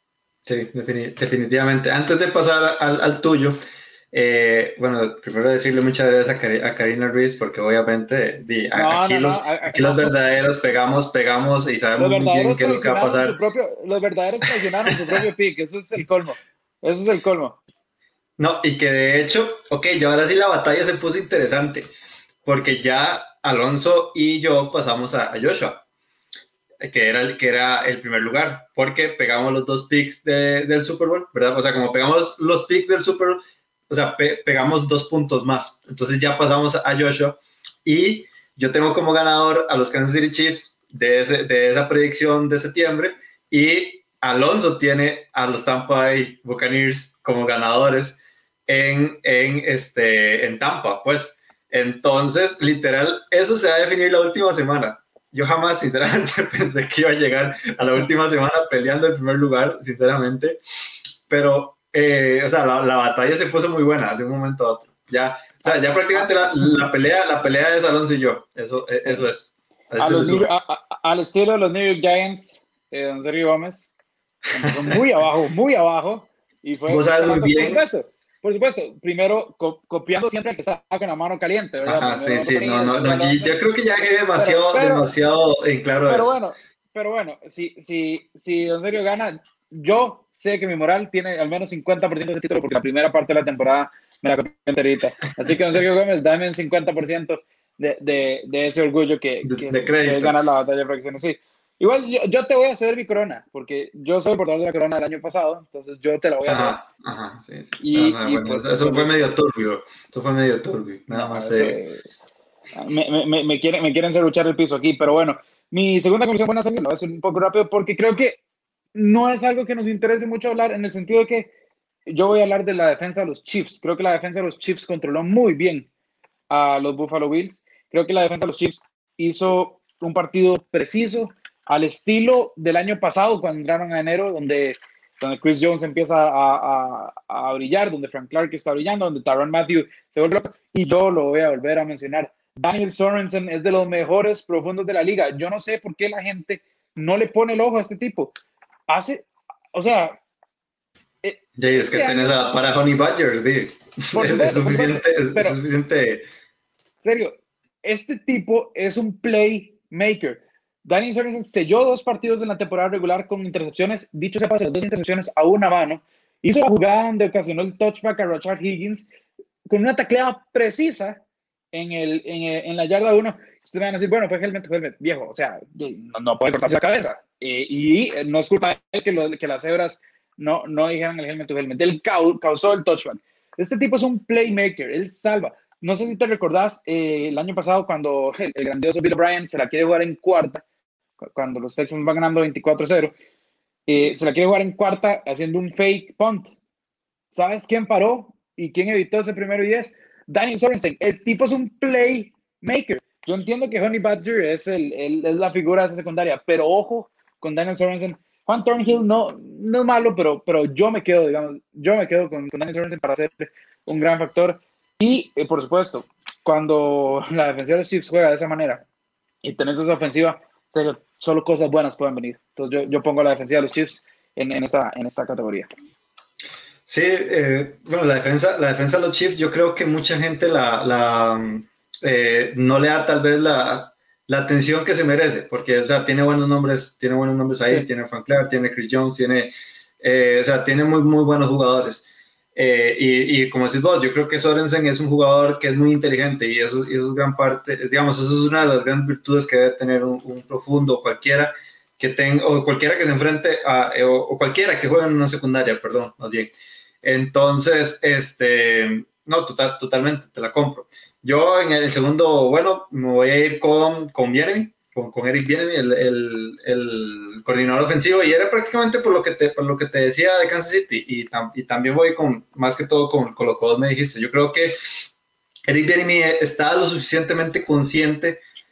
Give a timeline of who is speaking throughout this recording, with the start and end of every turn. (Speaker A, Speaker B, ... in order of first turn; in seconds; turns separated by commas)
Speaker A: 0.5-3.6, Speaker A: 4.1-13.4, Speaker B: 8.7-10.1, Speaker B: 12.0-17.6, Speaker A: 14.4-15.2, Speaker A: 18.4-21.9, Speaker A: 22.4-25.8, Speaker A: 26.8-60.6, Speaker A: 61.3-70.5, Speaker B: 65.6-66.9, Speaker B: 70.0-73.9, Speaker B: 74.5-83.6, Speaker A: 74.6-75.0, Speaker A: 76.9-77.8, Speaker A: 81.9-86.3, Speaker B: 84.4-85.1, Speaker B: 86.1-106.8, Speaker A: 99.4-100.4, Speaker A: 106.5-111.8, Speaker B: 107.8-109.3, Speaker B: 111.1-112.0, Speaker B: 112.8-118.4, Speaker B: 118.9-121.5, Speaker B: 122.1-125.9, Speaker B: 126.5-148.3, Speaker B: 148.9-150.2, Speaker B: 151.2-152.3, Speaker A: 151.6-156.2, Speaker B: 154.1-155.6, Speaker B: 157.0-169.1, Speaker B: 169.7-171.2, Speaker B: 171.7-190.6, Speaker B: 191.2-193.1, Speaker B: 193.9-196.5, Speaker B: 197.3-218.8, Speaker B: 219.4-225.7, Speaker A: 226.9-242.0, Speaker A: 242.6-275.1, Speaker A: 275.7-278.4